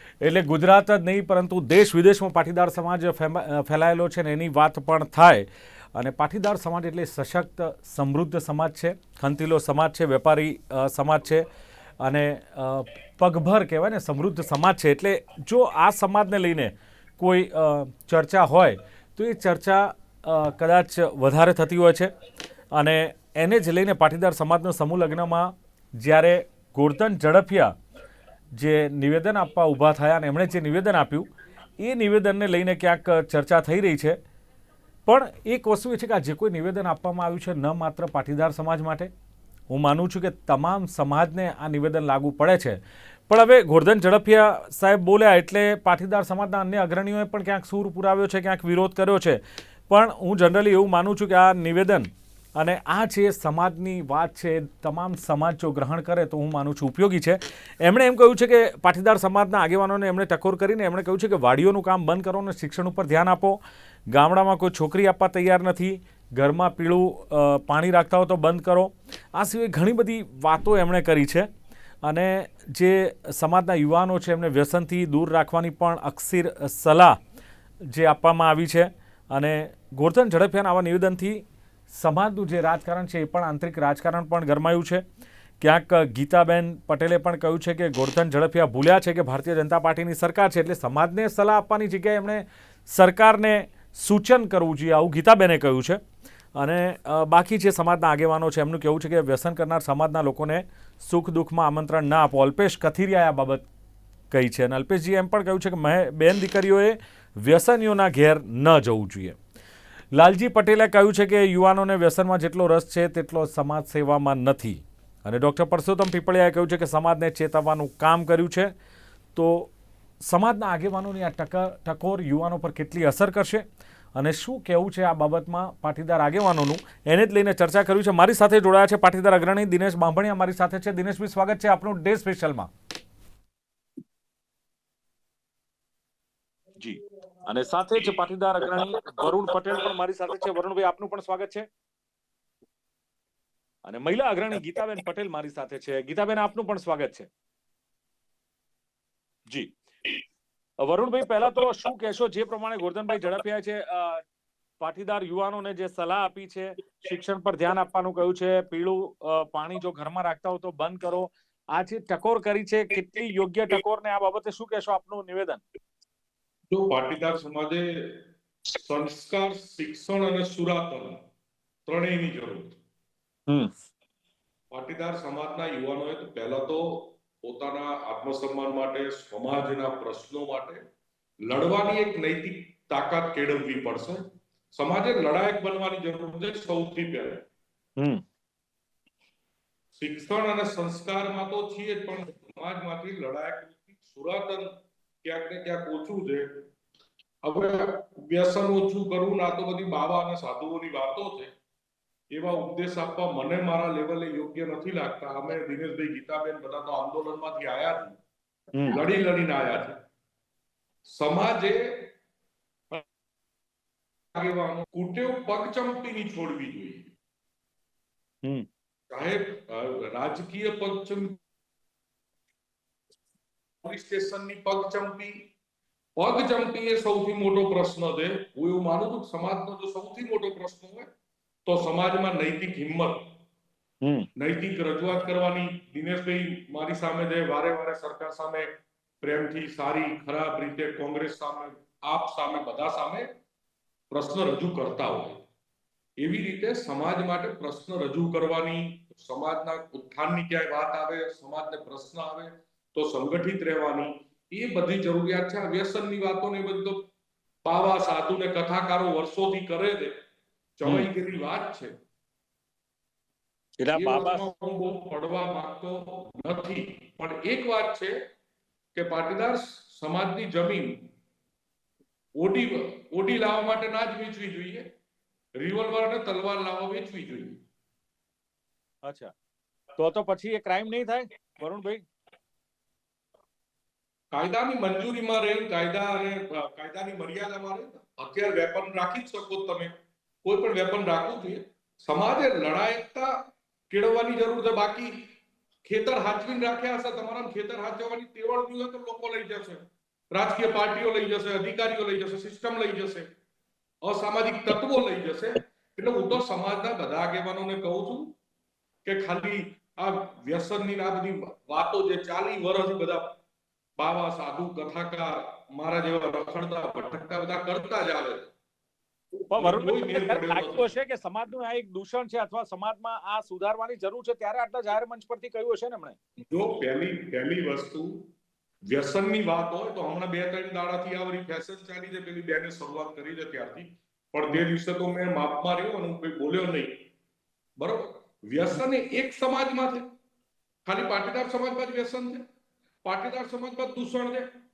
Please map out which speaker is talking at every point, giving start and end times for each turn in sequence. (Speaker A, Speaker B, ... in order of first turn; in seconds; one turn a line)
Speaker A: 0.2-11.4
Speaker A: 12.0-22.1
Speaker A: 22.7-27.8
Speaker A: 28.5-31.3
Speaker A: 31.8-34.2
Speaker A: 35.0-39.1
Speaker A: 39.7-71.5
Speaker A: 72.0-77.2
Speaker A: 77.8-85.0
Speaker A: 85.6-96.0
Speaker A: 96.5-103.7
Speaker A: 104.3-109.4
Speaker A: 110.1-118.7
Speaker A: 119.3-119.7
Speaker A: 120.2-123.6
Speaker A: 124.2-132.7
Speaker A: 136.8-141.7
Speaker B: 138.7-139.1
Speaker A: 143.8-147.3
Speaker A: 150.8-154.2
Speaker A: 154.8-165.6
Speaker B: 166.7-171.2
Speaker B: 171.9-172.8
Speaker B: 174.7-180.8
Speaker B: 181.4-187.4
Speaker A: 188.0-188.2
Speaker B: 189.9-194.7
Speaker B: 195.2-196.7
Speaker B: 197.4-201.5
Speaker B: 202.3-208.2
Speaker A: 208.7-209.0
Speaker B: 208.9-210.0
Speaker B: 211.1-212.1
Speaker B: 214.3-217.1
Speaker B: 219.1-221.4
Speaker B: 223.8-225.5
Speaker B: 226.2-231.1
Speaker B: 231.7-233.3
Speaker A: 234.0-234.3
Speaker B: 234.4-243.3
Speaker B: 244.1-245.4
Speaker B: 246.2-257.1
Speaker B: 257.6-260.2
Speaker B: 260.8-261.9
Speaker A: 263.8-264.4
Speaker B: 263.9-268.1
Speaker B: 268.9-271.1
Speaker B: 272.4-274.9
Speaker B: 275.6-277.6
Speaker A: 279.0-279.3
Speaker A: 280.0-282.0
Speaker B: 284.3-295.3
Speaker B: 295.8-303.3
Speaker B: 304.0-308.4
Speaker B: 309.0-313.4
Speaker B: 314.0-318.5
Speaker B: 319.4-320.9
Speaker A: 319.5-326.1
Speaker B: 326.5-328.3
Speaker B: 328.9-337.1
Speaker B: 337.8-340.1
Speaker B: 340.9-342.4
Speaker B: 343.0-344.5